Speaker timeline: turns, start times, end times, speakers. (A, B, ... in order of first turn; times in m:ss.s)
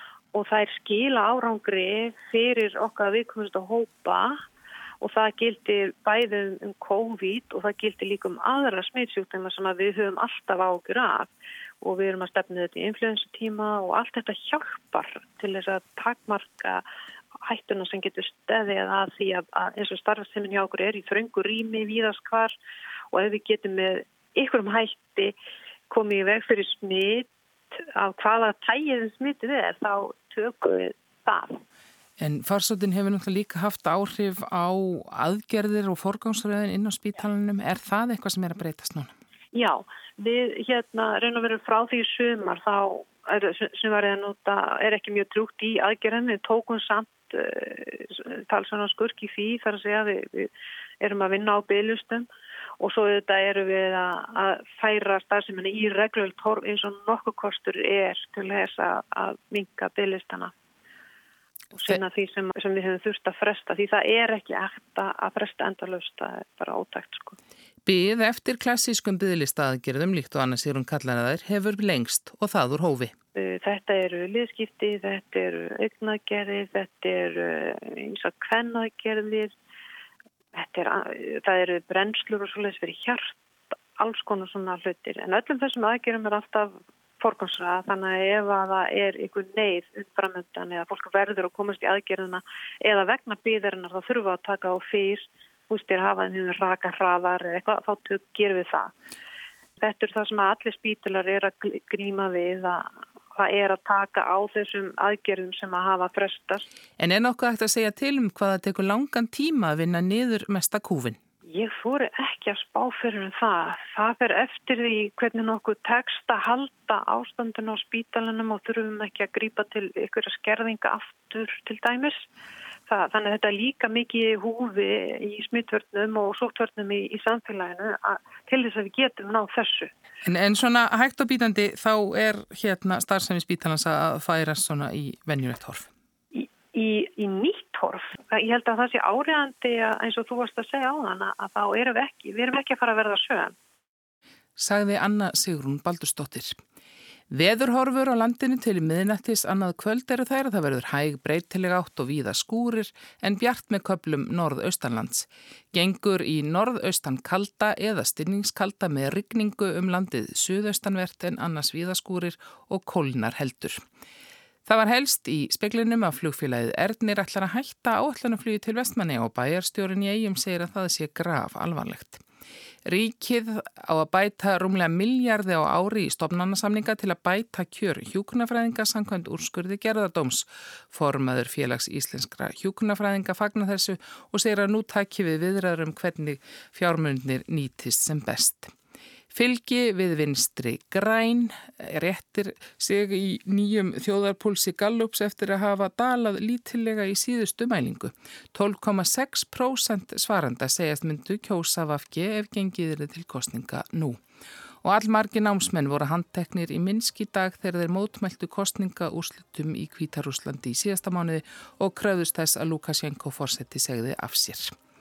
0:00.3-0:04.4 A
0:05.0-0:11.3 A
0:11.8-0:16.8 A
0:17.5-0:22.5 A
0:23.1-0:25.3 A
0:25.9-0:27.3 A
0:28.0-0:31.6 A
0:32.2-0:39.1 B
0:39.5-0:50.5 A
0:51.0-0:52.3 A
0:52.8-1:00.5 A
1:01.7-1:07.4 A
1:07.9-1:13.1 B
1:13.4-1:19.5 A
1:20.6-1:23.4 A
1:24.0-1:38.9 A
1:39.8-1:46.7 A
1:47.0-1:51.2 B
1:51.5-2:02.2 A
2:02.9-2:09.9 A
2:10.2-2:15.9 B
2:16.3-2:23.5 A
2:24.6-2:26.6 B
2:27.3-2:43.8 B
2:44.7-2:52.2 B
2:52.8-3:08.7 B
3:09.3-3:24.2 B
3:24.8-3:34.7 B